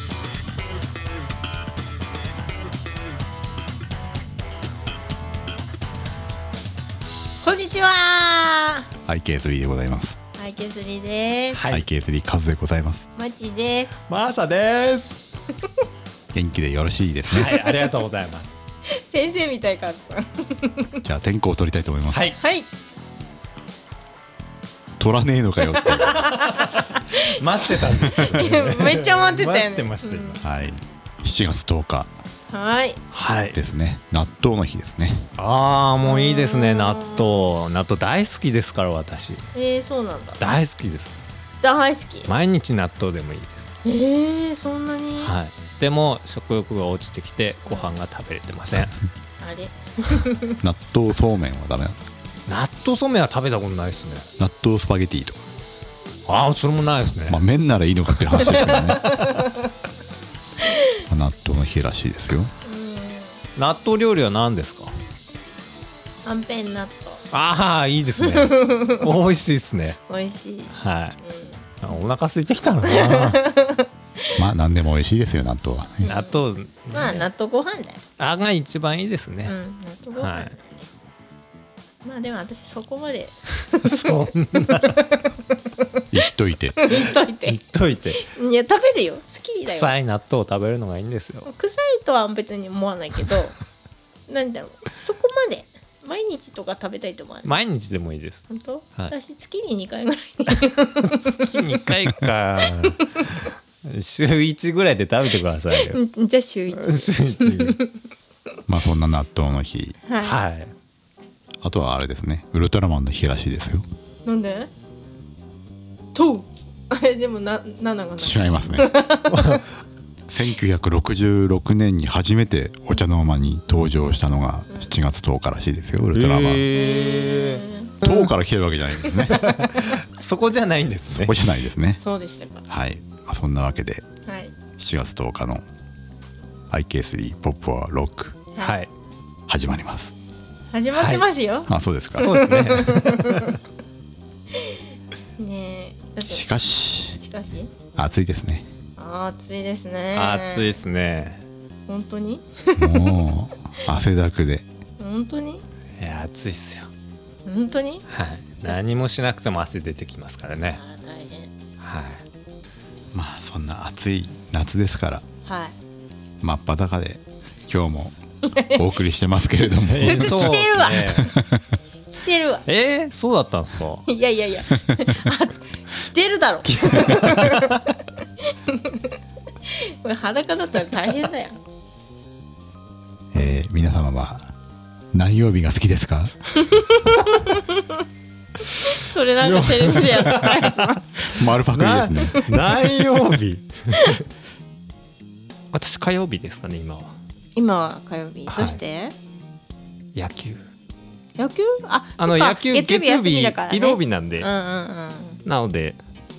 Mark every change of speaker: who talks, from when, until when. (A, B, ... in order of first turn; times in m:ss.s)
0:07.4-0:08.9 A
0:09.0-0:10.2 B
0:10.4-0:11.6 A
0:11.5-0:11.8 C
0:11.7-0:13.0 B
0:13.2-0:14.0 A
0:14.1-0:15.2 C
0:16.3-0:17.6 B
0:17.3-0:18.5 C
0:18.9-0:21.0 A
0:21.0-0:22.2 B
0:22.1-0:22.4 C
0:22.4-0:22.7 A
0:25.0-0:26.3 B
0:26.0-0:27.4 A
0:26.2-0:30.4 C
0:28.0-0:30.4 A
0:30.4-0:32.1 B
0:32.5-0:33.0 A
0:33.1-0:33.6 C
0:33.5-0:35.3 B
0:35.4-0:39.5 C
0:36.0-0:37.5 A
0:39.5-0:40.4 A
0:40.4-0:41.2 C
0:41.6-0:42.3 A
0:42.3-0:43.7 C
0:43.8-0:45.3 A
0:45.2-0:49.0 C
0:49.4-0:50.6 A
0:50.6-0:52.0 B
0:52.5-0:54.3 C
0:54.4-0:55.4 B
0:56.3-0:57.4 C
0:57.3-0:59.2 B
0:58.1-0:59.2 C
0:58.8-0:59.7 A
1:00.6-1:01.0 A
1:01.1-1:02.5 B
1:02.6-1:03.4 A
1:03.6-1:05.0 C
1:06.2-1:07.2 A
1:07.3-1:10.0 C
1:08.2-1:09.1 A
1:10.1-1:11.6 A
1:10.7-1:11.2 C
1:11.8-1:13.4 C
1:12.8-1:14.4 A
1:14.4-1:16.2 B
1:16.0-1:16.4 A
1:16.1-1:17.3 C
1:16.9-1:18.0 A
1:18.2-1:19.6 C
1:19.5-1:20.9 A
1:20.2-1:20.6 C
1:22.0-1:26.0 A
1:23.8-1:25.0 C
1:26.1-1:26.8 B
1:26.8-1:27.6 A
1:26.9-1:28.2 C
1:28.2-1:29.9 A
1:29.7-1:31.5 C
1:31.5-1:33.6 A
1:34.3-1:37.5 A
1:37.4-1:39.1 C
1:38.5-1:41.8 A
1:41.0-1:46.0 C
1:45.8-1:47.9 A
1:46.7-1:47.8 C
1:48.7-1:50.0 B
1:50.1-1:50.4 A
1:50.2-1:50.7 C
1:51.6-1:53.8 B
1:54.3-1:54.7 A
1:56.2-1:59.6 A
1:58.2-1:58.9 B
1:59.3-1:59.7 C
2:00.3-2:06.7 B
2:06.1-2:08.3 C
2:06.7-2:08.0 A
2:08.0-2:09.4 B
2:09.2-2:11.5 C
2:09.3-2:09.8 A
2:11.1-2:12.0 B
2:12.0-2:12.7 A
2:12.7-2:14.1 B
2:14.3-2:14.5 A
2:14.8-2:15.6 B
2:16.7-2:18.4 B
2:18.6-2:18.9 C
2:19.5-2:20.1 B
2:20.7-2:23.6 A
2:20.9-2:21.2 C
2:21.7-2:22.3 B
2:22.2-2:23.6 C
2:24.5-2:24.8 A
2:25.4-2:26.5 A
2:26.3-2:27.2 B
2:27.1-2:27.7 A
2:28.0-2:28.7 B
2:29.0-2:30.7 A
2:30.2-2:31.4 C
2:31.9-2:33.1 A
2:32.8-2:34.6 B
2:35.0-2:35.6 A
2:36.0-2:36.9 C
2:37.5-2:38.0 A
2:38.1-2:40.8 C
2:40.7-2:41.5 A
2:41.8-2:42.2 C
2:43.1-2:45.2 B
2:45.5-2:45.7 A
2:46.4-2:51.6 B
2:48.4-2:48.8 A
2:49.9-2:51.3 C
2:50.0-2:51.3 A
2:52.1-2:52.6 A
2:52.7-2:54.0 C
2:54.1-2:57.9 A
2:56.8-2:57.8 C
2:58.7-2:59.2 A
2:59.7-3:01.6 A
3:03.3-3:04.5 B
3:05.1-3:06.3 B
3:06.6-3:08.0 A
3:08.7-3:11.0 A
3:09.4-3:10.8 C
3:11.2-3:12.6 B
3:11.7-3:14.2 C
3:15.7-3:17.2 C
3:17.6-3:19.2 A
3:18.5-3:18.8 C
3:20.2-3:20.6 C
3:21.4-3:25.4 A
3:22.2-3:24.5 C
3:25.4-3:26.0 C